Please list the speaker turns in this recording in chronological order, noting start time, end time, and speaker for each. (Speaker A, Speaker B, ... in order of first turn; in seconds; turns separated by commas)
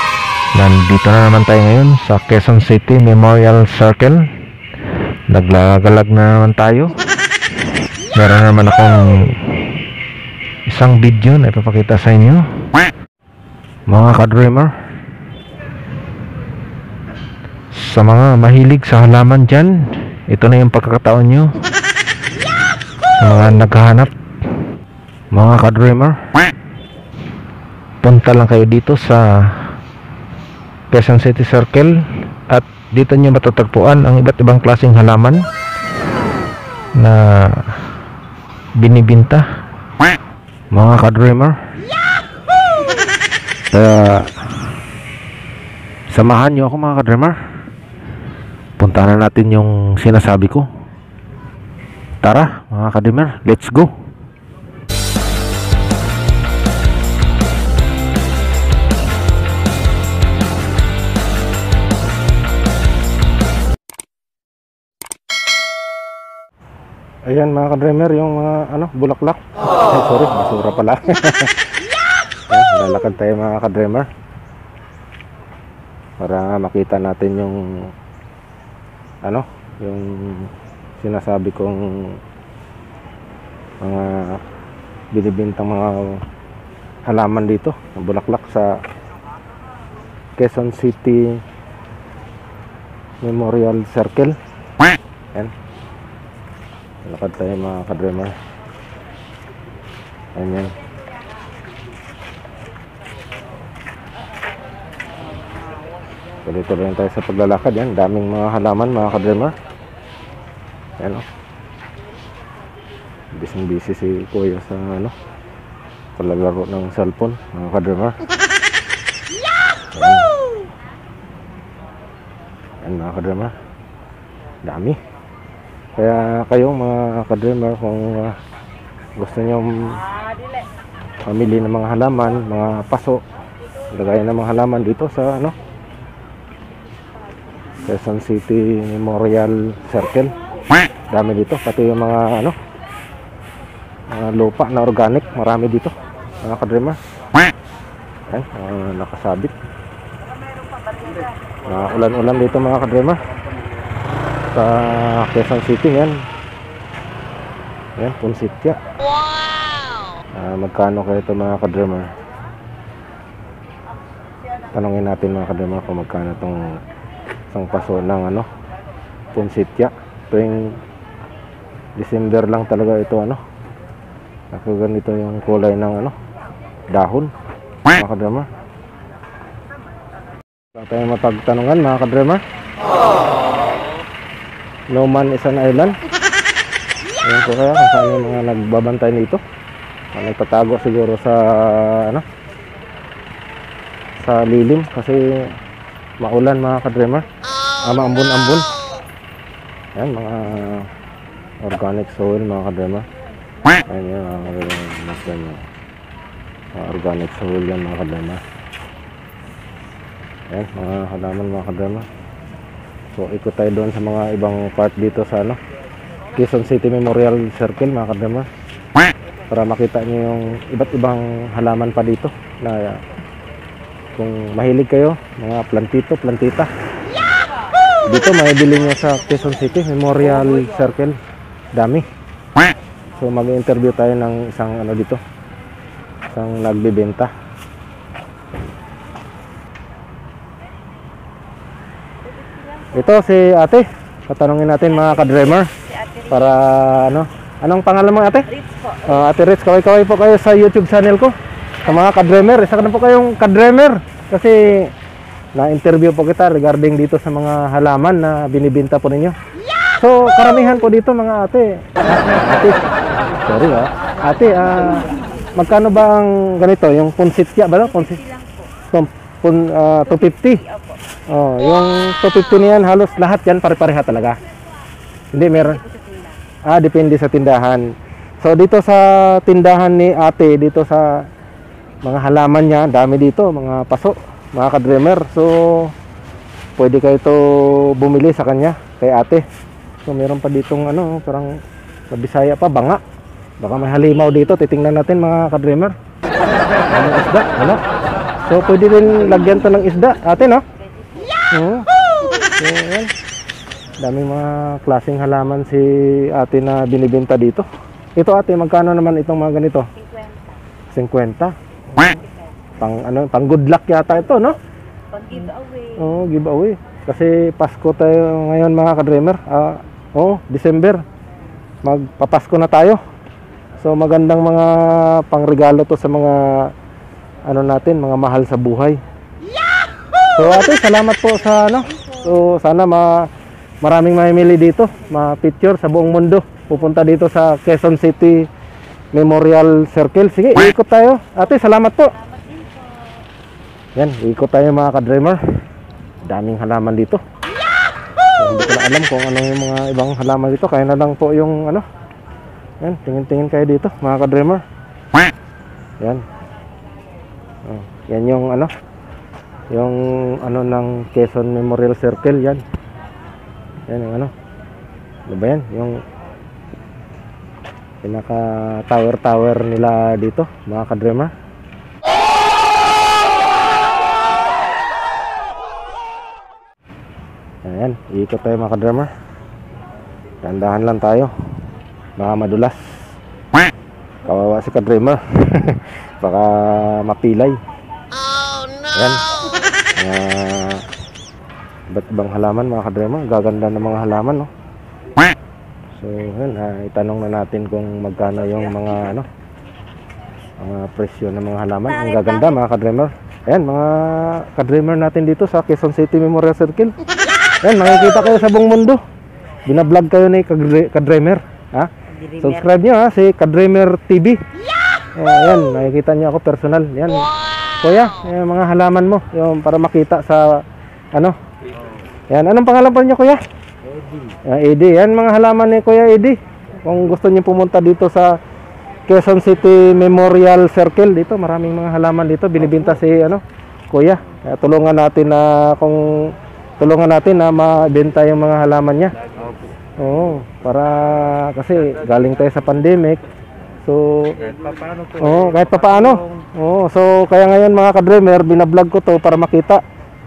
Speaker A: 0.5-4.3, Speaker A: 5.3-6.9, Speaker A: 8.1-9.6, Speaker A: 10.7-12.6, Speaker A: 13.9-14.7, Speaker A: 17.8-21.6, Speaker A: 23.2-24.1, Speaker A: 25.3-26.2, Speaker A: 28.0-29.7, Speaker A: 30.9-32.0, Speaker A: 32.5-35.4, Speaker A: 37.0-37.8, Speaker A: 38.8-39.5, Speaker A: 40.7-41.6, Speaker A: 43.7-44.5, Speaker A: 46.1-47.4, Speaker A: 48.8-50.7, Speaker A: 52.2-53.9, Speaker A: 67.3-71.6, Speaker A: 72.5-74.1, Speaker A: 76.2-77.9, Speaker A: 79.2-82.2, Speaker A: 83.8-84.4, Speaker A: 85.1-86.2, Speaker A: 87.0-88.8, Speaker A: 90.4-91.4, Speaker A: 93.2-94.3, Speaker A: 97.0-98.3, Speaker A: 100.3-100.7, Speaker A: 106.5-109.5, Speaker A: 111.0-111.2, Speaker A: 113.3-115.1, Speaker A: 116.2-118.2, Speaker A: 119.9-120.3, Speaker A: 122.8-123.5, Speaker A: 124.6-125.0, Speaker A: 126.0-128.3, Speaker A: 129.2-129.9, Speaker A: 131.3-133.2, Speaker A: 133.9-135.5, Speaker A: 137.8-140.3, Speaker A: 141.1-142.6, Speaker A: 144.1-147.0, Speaker A: 148.3-149.5, Speaker A: 151.6-153.2, Speaker A: 154.5-156.2, Speaker A: 158.0-158.8, Speaker A: 160.3-162.1, Speaker A: 164.7-166.7, Speaker A: 167.5-168.5, Speaker A: 169.3-170.8, Speaker A: 172.0-173.4, Speaker A: 174.5-176.1, Speaker A: 176.9-177.3, Speaker A: 177.9-178.5, Speaker A: 180.8-182.4, Speaker A: 184.9-185.9, Speaker A: 187.2-189.4, Speaker A: 190.1-192.2, Speaker A: 194.2-195.5, Speaker A: 196.2-197.2, Speaker A: 197.8-198.7, Speaker A: 199.9-200.9, Speaker A: 201.6-203.1, Speaker A: 203.9-205.6, Speaker A: 206.7-208.4, Speaker A: 210.5-212.1, Speaker A: 213.1-215.6, Speaker A: 216.3-218.5, Speaker A: 219.5-223.0, Speaker A: 224.2-226.7, Speaker A: 228.1-231.2, Speaker A: 231.7-232.1, Speaker A: 233.2-235.2, Speaker A: 236.3-237.3, Speaker A: 242.9-245.7, Speaker A: 246.3-248.5, Speaker A: 249.0-254.9, Speaker A: 255.5-259.4, Speaker A: 260.0-262.8, Speaker A: 263.4-265.0, Speaker A: 265.6-268.2, Speaker B: 268.2-268.6, Speaker A: 268.9-270.6, Speaker A: 271.3-274.4, Speaker A: 275.3-275.8, Speaker B: 275.6-276.3, Speaker A: 276.7-277.9, Speaker A: 278.4-281.2, Speaker A: 282.0-285.9, Speaker A: 286.8-289.4, Speaker A: 290.0-291.5, Speaker A: 292.1-293.0, Speaker A: 293.6-295.9, Speaker A: 296.9-297.8, Speaker A: 298.5-300.6, Speaker A: 301.5-301.9, Speaker A: 302.6-303.1, Speaker A: 304.0-307.6, Speaker A: 308.2-309.9, Speaker B: 310.0-310.4, Speaker A: 310.9-312.2, Speaker A: 312.8-314.6, Speaker B: 315.2-315.9, Speaker A: 315.3-321.0, Speaker A: 321.8-323.0, Speaker A: 323.8-326.7, Speaker A: 327.5-329.0, Speaker A: 330.4-333.3, Speaker A: 333.8-338.5, Speaker A: 339.1-342.1, Speaker A: 343.9-345.4, Speaker A: 346.3-347.2, Speaker A: 348.4-351.8, Speaker A: 352.8-354.6, Speaker A: 357.7-358.7, Speaker A: 359.7-362.6, Speaker A: 363.9-364.3, Speaker A: 365.3-366.0, Speaker A: 368.0-371.3, Speaker A: 377.6-379.1, Speaker A: 380.4-381.3, Speaker A: 382.2-383.0, Speaker A: 384.2-387.6, Speaker A: 388.9-389.2, Speaker A: 389.9-390.9, Speaker A: 391.9-394.5, Speaker A: 395.9-399.3, Speaker A: 400.6-406.9, Speaker B: 402.1-402.4, Speaker A: 407.6-409.0, Speaker A: 409.7-414.4, Speaker B: 412.2-412.6, Speaker A: 415.1-417.3, Speaker A: 417.8-420.6, Speaker A: 422.3-423.4, Speaker A: 424.4-428.4, Speaker A: 429.1-439.1, Speaker C: 439.4-439.7, Speaker A: 440.0-443.2, Speaker A: 443.8-444.4, Speaker C: 444.4-446.1, Speaker A: 445.2-449.8